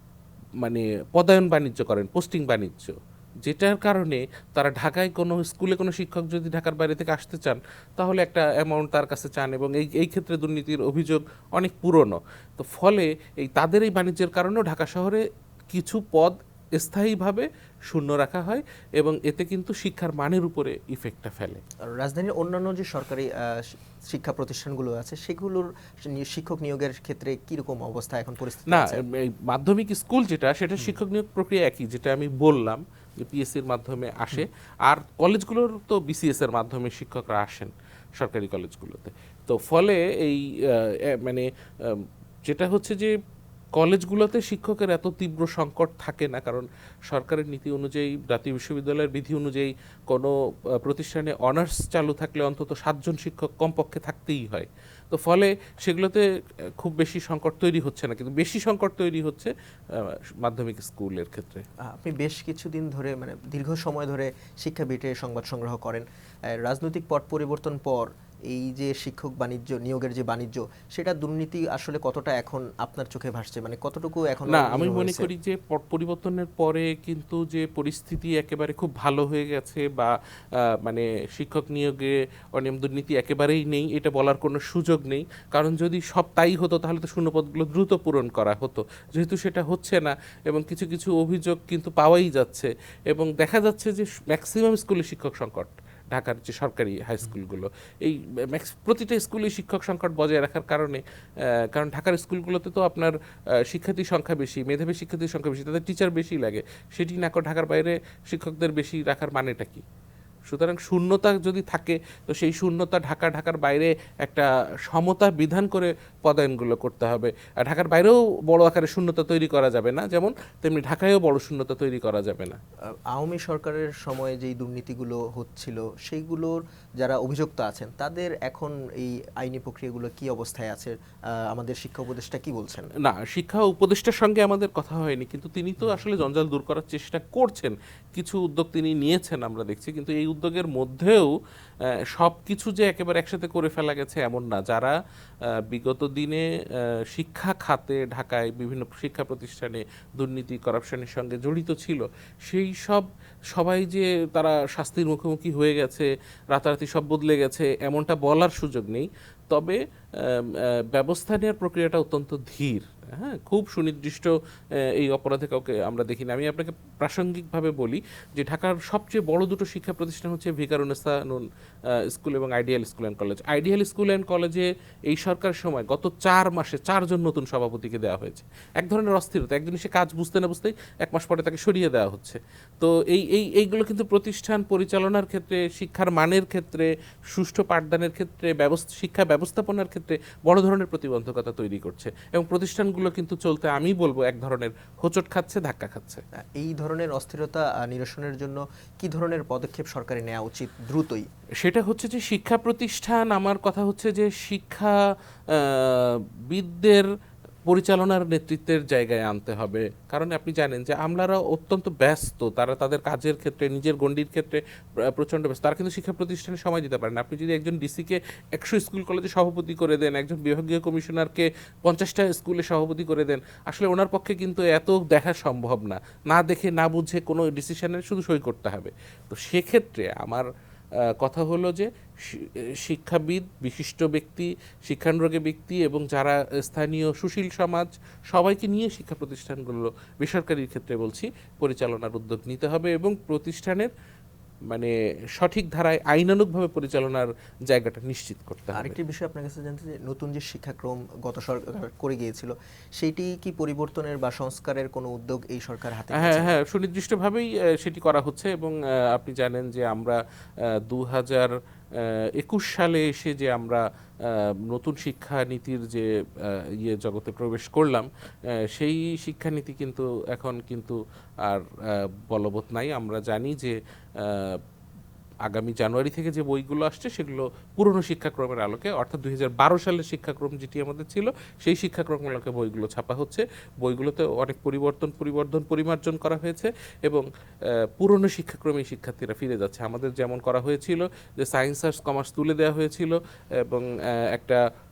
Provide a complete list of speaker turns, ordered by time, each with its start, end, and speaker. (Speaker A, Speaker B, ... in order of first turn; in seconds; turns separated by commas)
Speaker A: 0.6-21.6, Speaker B: 21.9-29.0, Speaker A: 28.7-43.1, Speaker A: 43.8-56.2, Speaker A: 56.8-61.6, Speaker B: 61.9-66.0, Speaker B: 66.6-75.3, Speaker A: 74.5-103.1, Speaker A: 103.7-109.8, Speaker A: 110.5-122.6, Speaker B: 123.1-130.9, Speaker B: 131.5-132.9, Speaker A: 133.0-141.3, Speaker A: 141.9-144.9, Speaker A: 145.7-196.2, Speaker B: 196.4-201.3, Speaker A: 201.6-205.0, Speaker A: 205.5-207.1, Speaker A: 207.7-230.5, Speaker A: 231.2-243.9, Speaker A: 244.7-248.9, Speaker B: 248.7-256.5, Speaker A: 256.1-274.6, Speaker A: 275.4-294.6